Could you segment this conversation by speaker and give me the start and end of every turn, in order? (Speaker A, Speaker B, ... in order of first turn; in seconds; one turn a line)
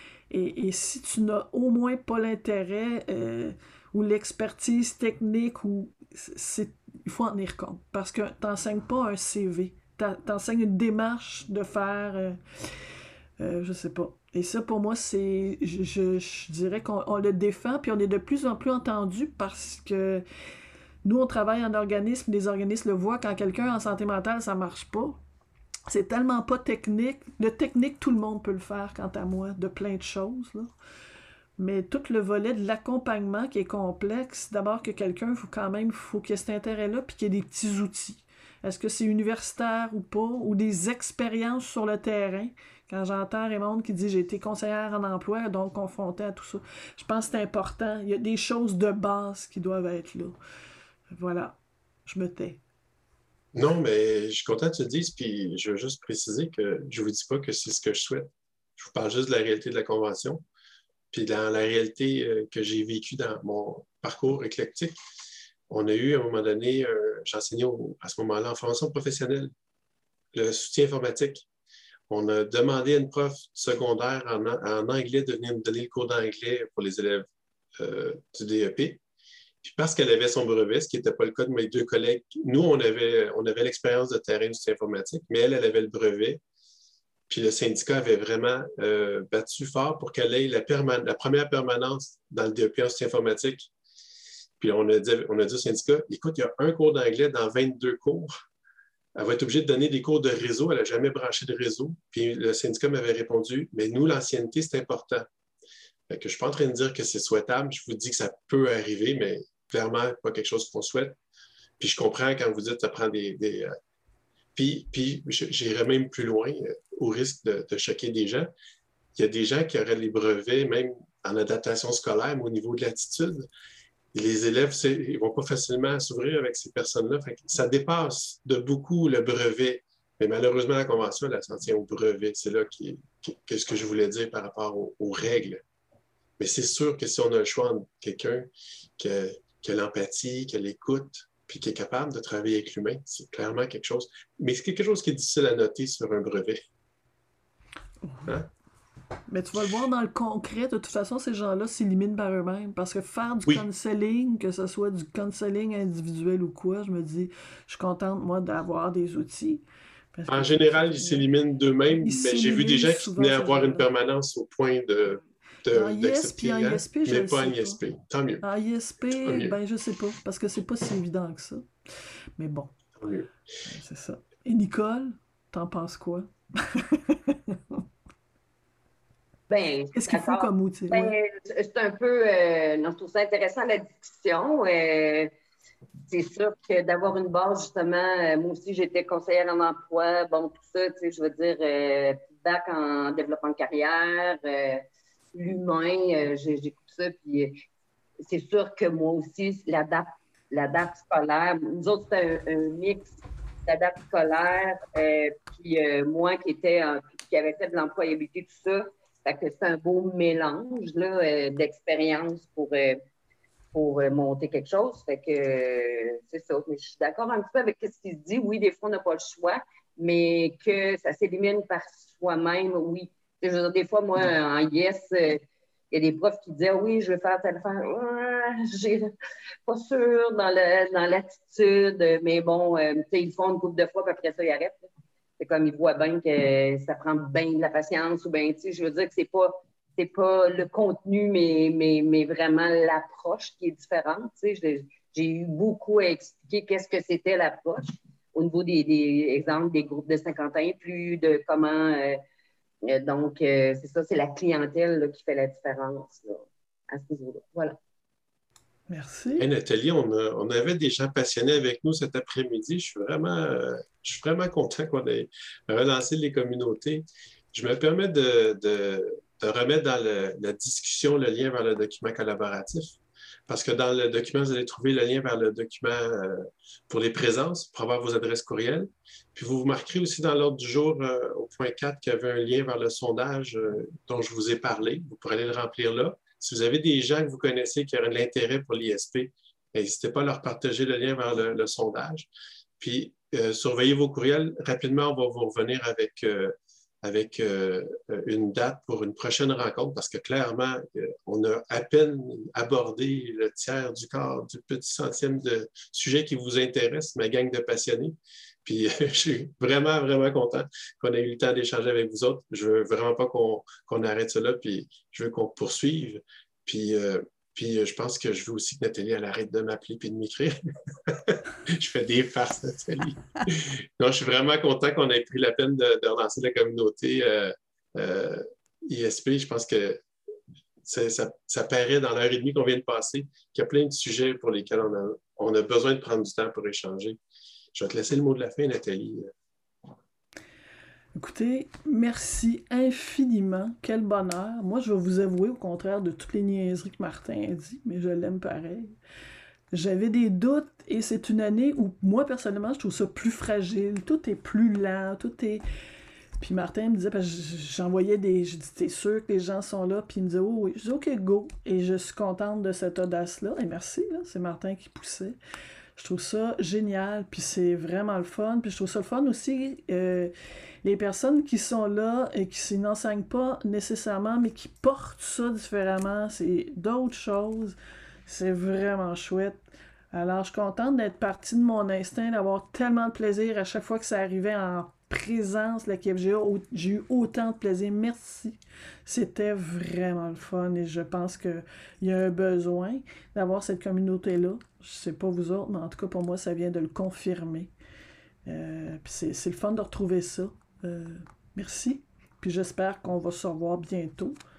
Speaker A: 0.3-12.8
Speaker A: 13.4-20.2
Speaker A: 21.0-25.2
Speaker A: 25.9-30.7
Speaker A: 31.6-50.4
Speaker A: 51.1-52.6
Speaker B: 53.5-60.4
Speaker B: 61.1-65.0
Speaker B: 65.7-69.5
Speaker B: 70.3-71.5
Speaker B: 72.1-77.2
Speaker B: 77.8-79.0
Speaker B: 79.6-86.4
Speaker B: 87.3-93.7
Speaker B: 94.6-98.3
Speaker B: 99.1-105.3
Speaker B: 106.1-111.2
Speaker B: 111.8-113.7
Speaker B: 114.5-118.5
Speaker B: 119.1-123.5
Speaker B: 124.1-135.6
Speaker B: 136.4-146.6
Speaker A: 148.0-148.3
Speaker A: 149.3-161.2
Speaker B: 160.3-168.4
Speaker A: 162.0-163.9
Speaker A: 165.7-167.8
Speaker A: 168.4-171.7
Speaker B: 169.2-169.6
Speaker A: 172.4-172.7
Speaker B: 173.0-173.3
Speaker A: 173.7-177.8
Speaker C: 179.5-185.3
Speaker A: 179.9-181.1
Speaker C: 186.1-197.5
Speaker C: 198.2-213.0
Speaker C: 213.7-225.4
Speaker C: 225.9-229.1
Speaker C: 229.7-234.8
Speaker C: 235.4-252.2
Speaker C: 252.8-257.8
Speaker A: 258.9-259.5
Speaker B: 259.4-330.0
Speaker B: 330.8-337.2
Speaker B: 337.7-339.3
Speaker A: 341.1-348.9
Speaker A: 349.7-355.6
Speaker A: 356.4-365.4
Speaker A: 365.9-370.3
Speaker A: 370.8-377.8
Speaker A: 378.3-379.6
Speaker A: 380.1-397.7
Speaker A: 398.4-404.4